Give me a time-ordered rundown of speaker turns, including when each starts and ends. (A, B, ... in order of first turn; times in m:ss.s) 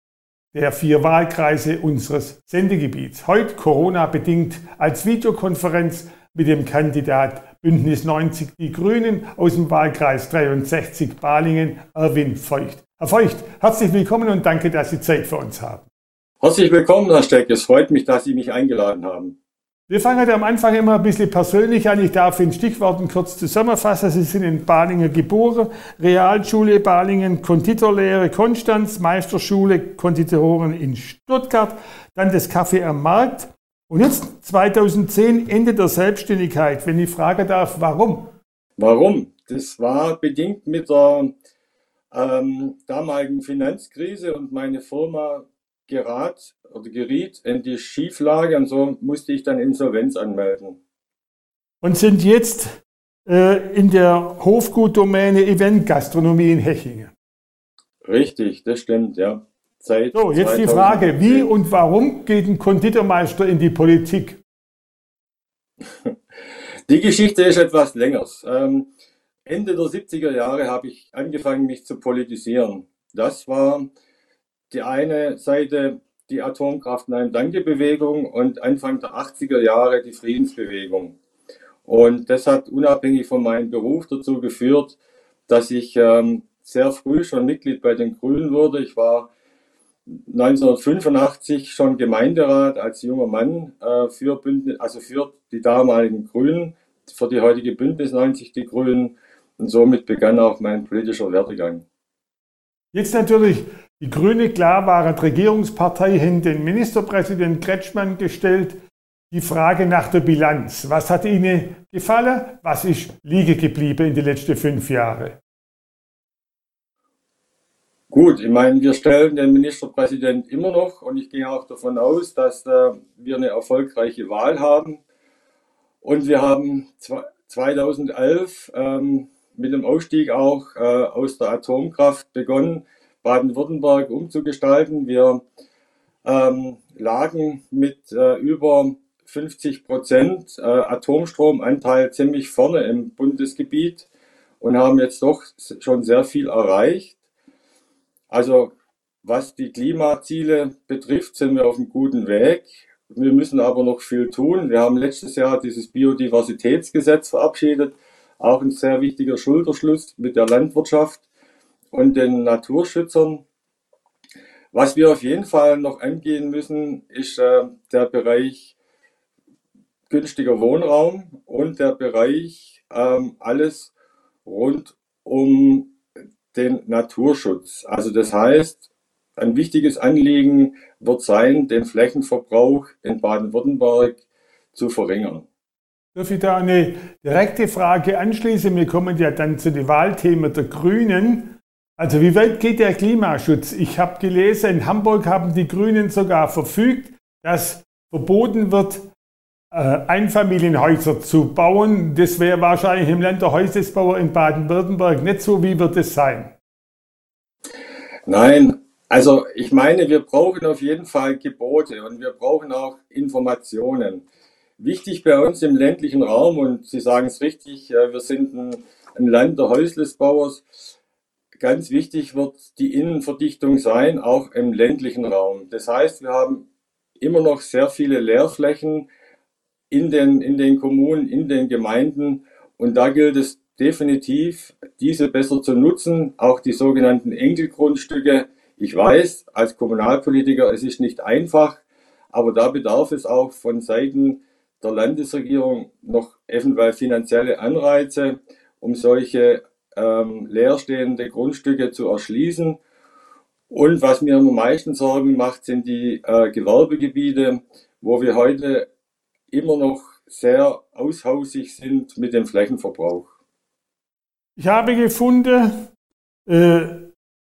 0:00.5-0:15.9 A
0:16.4-0:19.4 B
0:19.9-0:38.4 A
0:38.8-0:41.3 B
0:42.1-0:50.8 B
0:51.8-0:57.1 A
0:58.1-1:01.5 B
1:00.1-1:04.4 A
1:06.9-1:08.9 B
1:09.5-1:13.9 B
1:14.7-1:21.2 B
1:21.9-1:25.0 B
1:25.5-1:29.3 B
1:30.1-1:41.8 B
1:42.9-1:48.8 A
1:49.3-1:55.4 A
1:58.1-2:05.0 B
2:06.0-2:15.4 B
2:16.2-2:24.1 B
2:24.6-2:27.2 B
2:28.3-2:28.7 B
2:29.2-2:41.2 B
2:41.9-2:43.4 B
2:44.7-2:48.8 B
2:50.1-2:53.9 B
2:54.4-2:55.9 B
2:56.5-2:58.8 B
2:59.4-3:04.2 B
3:04.7-3:05.5 B
3:06.2-3:19.1 A
3:19.7-3:26.6 A
3:28.3-3:34.2 B
3:34.8-3:40.7 B
3:41.6-3:46.6 B
3:47.2-3:49.1 B
3:49.9-4:01.8 B
4:02.3-4:12.8 B
4:13.7-4:18.9 B
4:19.5-4:23.3 B
4:24.6-4:25.9 A
4:26.5-4:27.1 A